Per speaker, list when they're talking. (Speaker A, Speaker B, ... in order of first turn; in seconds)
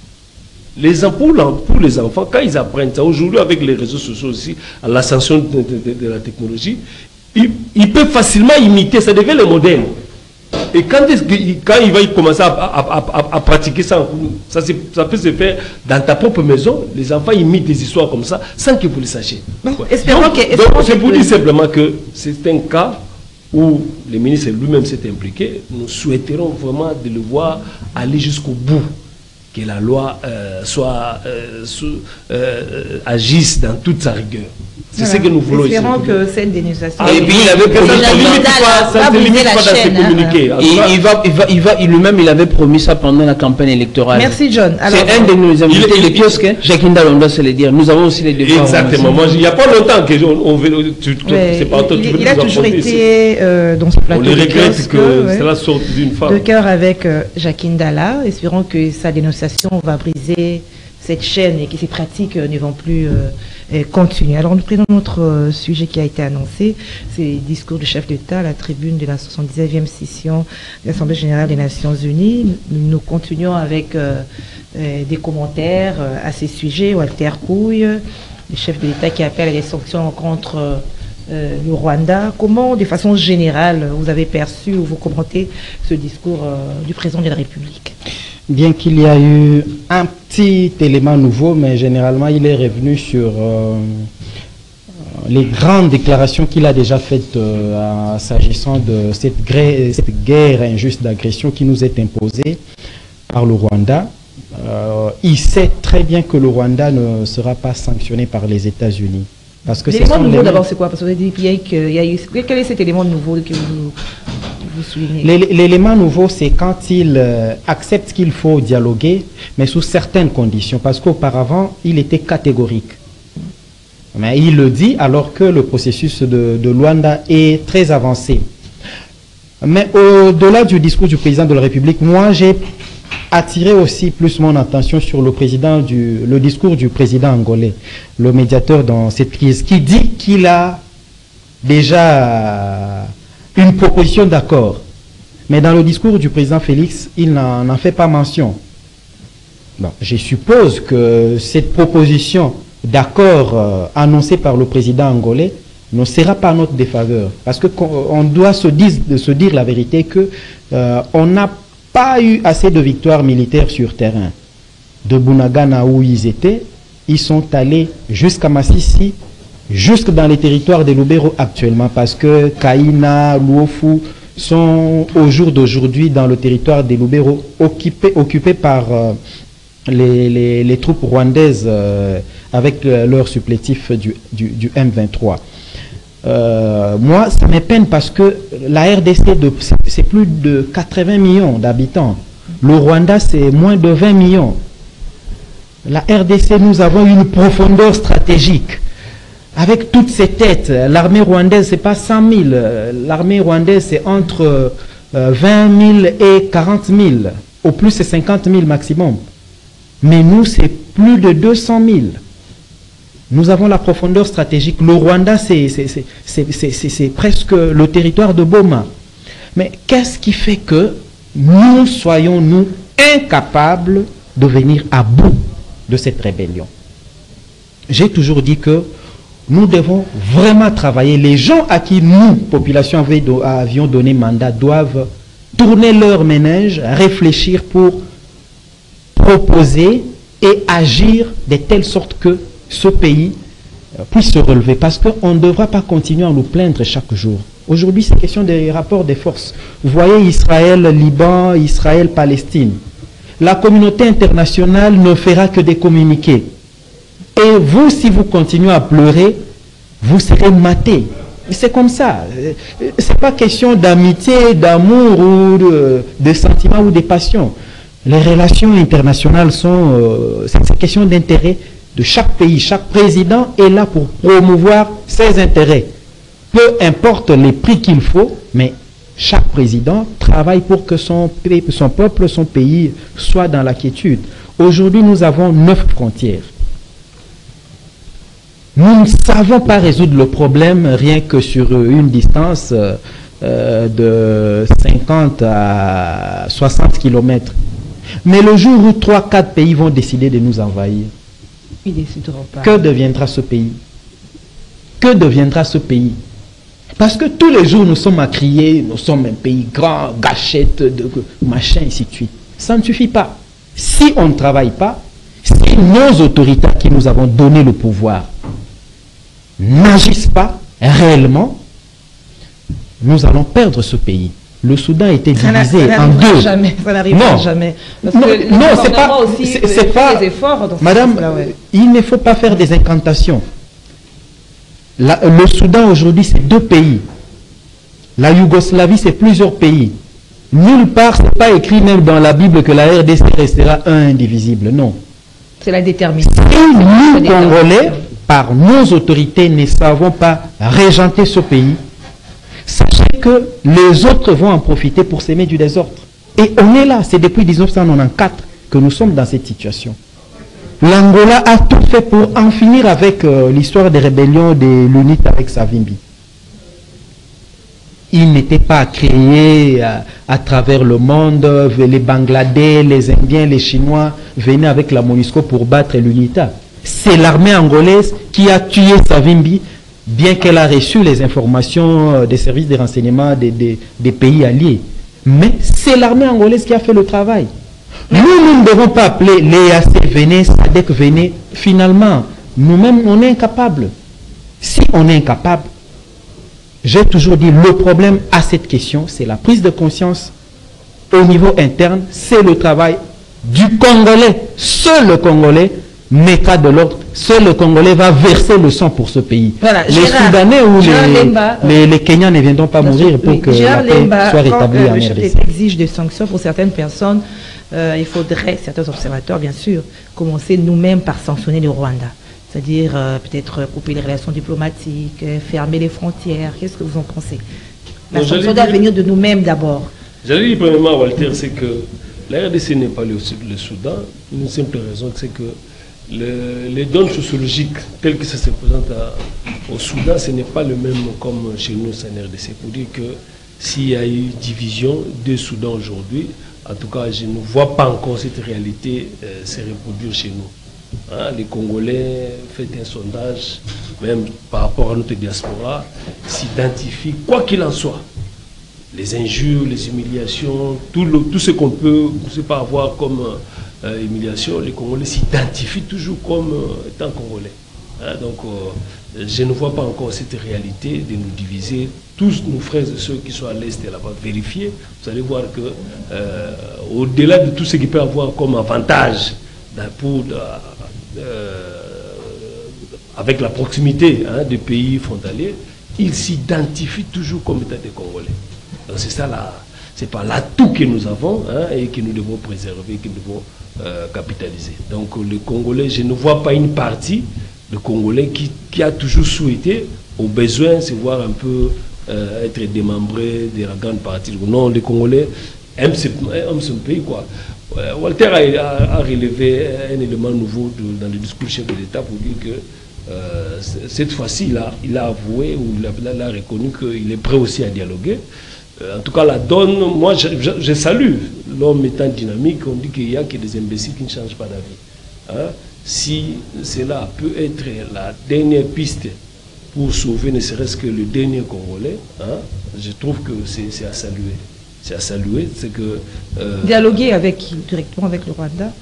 Speaker A: 0.8-6.8, 7.3-9.9, 10.7-23.0, 23.5-28.9, 29.5-36.2, 37.0-41.0, 45.7-46.4, 48.4-53.0, 54.1-56.4, 428.1-428.8, 430.2-435.6, 436.1-450.5, 451.1-458.0, 458.9-482.6, 483.1-488.4, 488.9-518.2, 518.8-529.1, 529.7-536.9
Speaker B: 19.6-21.3, 35.0-40.4, 44.1-45.3, 51.2-55.5, 56.3-88.0, 109.9-114.0, 114.6-115.3, 301.9-302.8, 325.4-331.5, 345.6-347.9, 409.6-411.8, 412.8-427.4, 428.1-429.9, 536.6-538.7
Speaker C: 37.0-38.5, 40.6-44.4, 44.9-49.2
Speaker D: 88.5-94.1, 95.2-102.6, 103.3-110.6, 115.2-123.0, 124.1-128.4, 129.6-132.6, 133.3-140.8, 141.6-144.8, 145.5-148.6, 149.8-164.3, 165.1-169.2, 169.7-179.1, 179.9-185.4, 186.2-194.6, 195.9-198.8, 199.6-209.2, 210.0-212.2, 213.3-218.9, 219.6-226.7, 227.9-228.9, 229.5-238.0, 239.2-243.3, 244.1-252.8, 253.4-256.5, 257.4-259.4, 260.0-267.5, 268.1-275.9, 276.5-286.5, 288.8-297.6, 298.2-301.1, 302.6-303.8, 305.0-306.1, 307.0-318.3, 319.6-321.6, 323.0-326.5, 327.1-327.5, 328.1-330.3, 330.8-333.4, 335.0-337.0, 338.2-339.9, 340.5-345.0, 346.2-351.8, 352.6-360.0, 360.8-366.0, 368.1-387.5, 388.1-393.9, 394.6-395.6, 396.8-400.3, 401.1-415.4